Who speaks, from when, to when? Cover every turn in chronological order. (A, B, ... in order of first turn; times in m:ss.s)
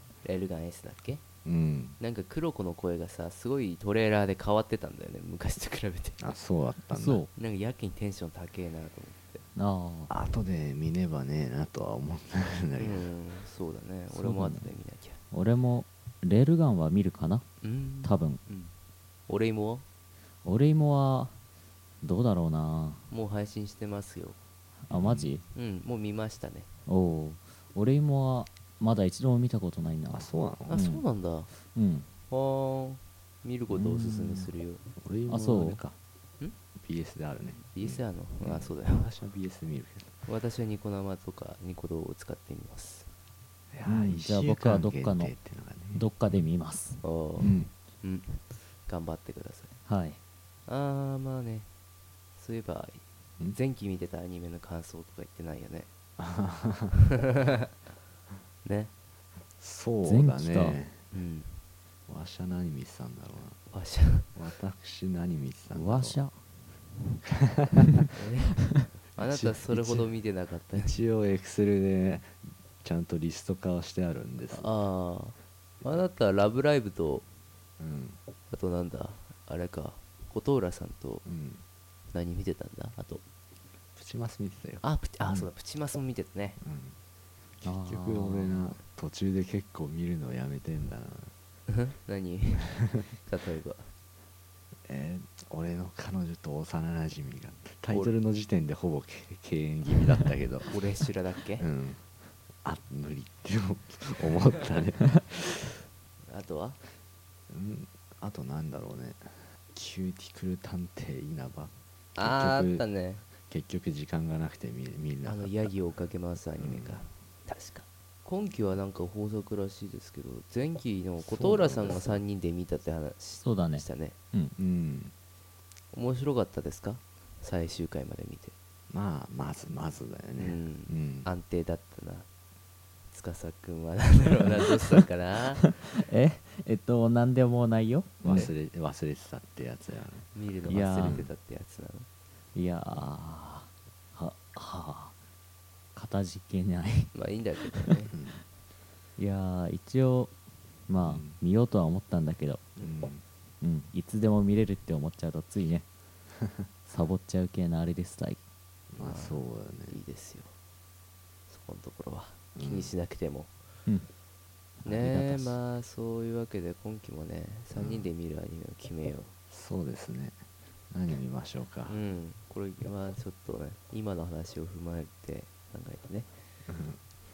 0:00.2-0:01.2 A
0:01.4-0:02.0 B
0:02.0-0:06.2 A
0:06.2-0:07.2 B
0:06.9-0:07.3 C
0:07.4-0:09.4 A
0:09.6-0:10.1 C
0:10.1-0:13.1 B
0:12.8-0:15.2 A
0:14.1-0:14.7 C
0:15.3-0:17.4 C
0:17.6-0:18.7 A
0:18.0-0:18.4 C
0:19.3-0:19.8 A
0:20.4-0:21.3 C
0:22.0-0:23.0 C
0:23.1-0:24.4 A
0:24.8-0:25.4 C
0:24.9-0:25.4 B
0:25.5-0:26.7 A
0:26.9-0:31.0 C
0:30.1-0:30.8 B
0:30.7-0:31.5 A
0:31.7-0:32.1 C
0:32.3-0:34.8 A
0:33.7-0:34.4 C
0:35.0-0:36.0 B
0:35.3-0:35.8 C
0:36.8-0:40.1 B
0:37.6-0:39.1 A
0:40.3-0:43.1 A
0:43.7-0:46.5 B
0:43.8-0:45.4 C
0:45.9-0:47.0 C
0:47.0-0:49.7 A
0:47.4-0:47.7 B
0:49.9-0:50.2 C
0:50.7-0:51.7 A
0:52.4-0:55.9 A
0:56.2-0:56.9 B
0:57.3-0:57.6 A
0:58.6-0:58.9 A
0:59.6-1:01.0 B
1:00.0-1:00.8 C
1:01.1-1:01.6 A
1:02.1-1:03.6 B
1:03.7-1:04.3 A
1:04.4-1:06.2 B
1:05.7-1:06.4 C
1:07.3-1:08.1 B
1:08.1-1:11.0 A
1:09.2-1:10.1 B
1:10.8-1:14.7 B
1:14.5-1:17.3 A
1:17.8-1:18.2 B
1:18.5-1:21.2 A
1:21.2-1:21.6 B
1:22.1-1:23.2 A
1:24.0-1:25.5 B
1:24.8-1:26.6 A
1:26.6-1:27.0 B
1:27.6-1:28.6 C
1:27.7-1:31.3 B
1:31.7-1:33.9 A
1:34.9-1:40.8 B
1:37.9-1:38.1 A
1:40.7-1:41.6 A
1:41.6-1:42.0 B
1:42.6-1:45.8 B
1:46.3-1:46.8 A
1:47.5-1:52.8 B
1:52.2-1:53.2 A
1:53.4-1:55.7 B
1:55.2-2:04.2 A
1:56.6-1:57.1 B
2:01.2-2:02.2 B
2:03.4-2:04.5 C
2:04.6-2:05.1 B
2:05.9-2:08.6 A
2:08.9-2:11.3 B
2:10.4-2:12.3 A
2:13.1-2:15.7 A
2:15.6-2:18.5 C
2:18.2-2:21.3 B
2:20.4-2:22.1 A
2:20.7-2:21.3 C
2:22.6-2:25.1 C
2:26.0-2:27.1 C
2:27.1-2:28.1 A
2:28.1-2:28.4 B
2:29.2-2:30.3 C
2:30.9-2:32.6 C
2:31.0-2:31.4 B
2:32.8-2:33.2 B
2:33.6-2:35.9 C
2:36.9-2:38.4 C
2:38.9-2:40.0 B
2:39.0-2:40.5 A
2:41.5-2:43.5 A
2:42.6-2:42.9 B
2:44.8-2:45.6 B
2:44.8-2:49.3 A
2:47.8-2:48.1 B
2:49.5-2:50.4 B
2:50.9-2:52.0 B
2:51.9-2:56.3 A
2:56.7-2:57.0 B